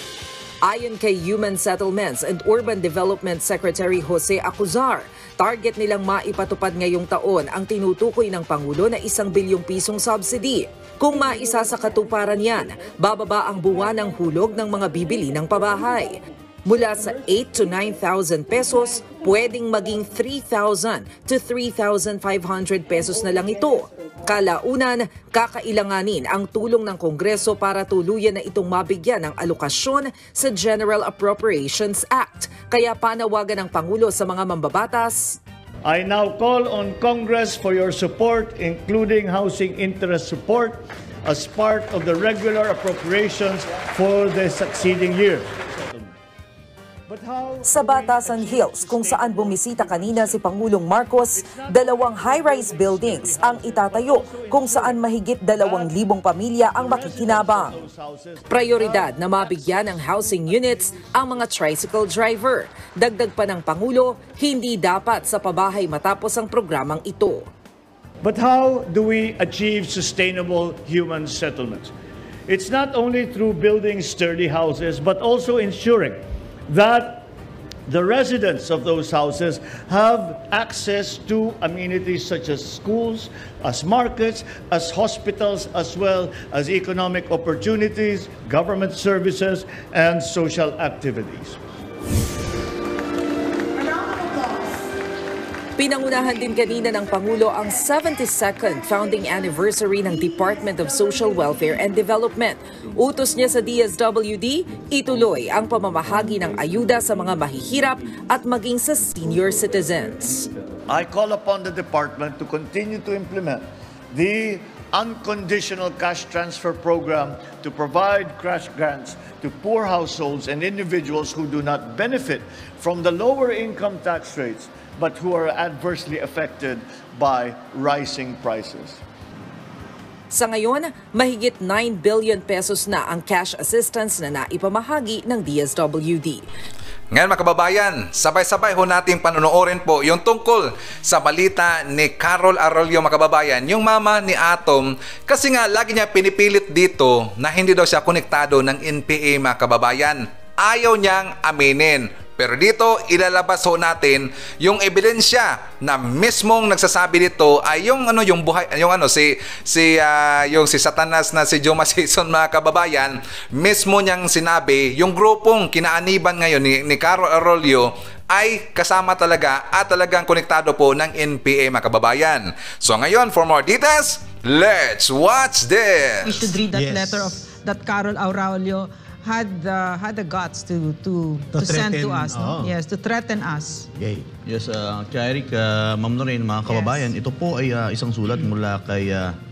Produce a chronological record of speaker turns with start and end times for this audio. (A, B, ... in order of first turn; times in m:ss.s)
0:00.6-0:35.4 A
0:35.9-0:46.1 B
0:47.1-0:50.7 B
0:47.7-0:57.8 A
0:51.3-0:55.0 B
0:55.5-0:56.0 B
0:56.6-1:01.4 B
0:58.5-1:07.5 A
1:08.2-1:11.9 B
1:12.5-1:17.3 B
1:17.9-1:31.6 B
1:33.8-1:34.7 C
1:35.8-1:50.5 A
1:50.9-2:09.0 B
2:10.3-2:16.5 A
2:17.1-2:56.5 D
2:56.2-3:03.9 C
2:56.7-2:57.4 E
3:01.5-3:02.8 E
3:04.0-3:04.3 E
3:04.5-3:09.4 F
3:06.7-3:07.0 C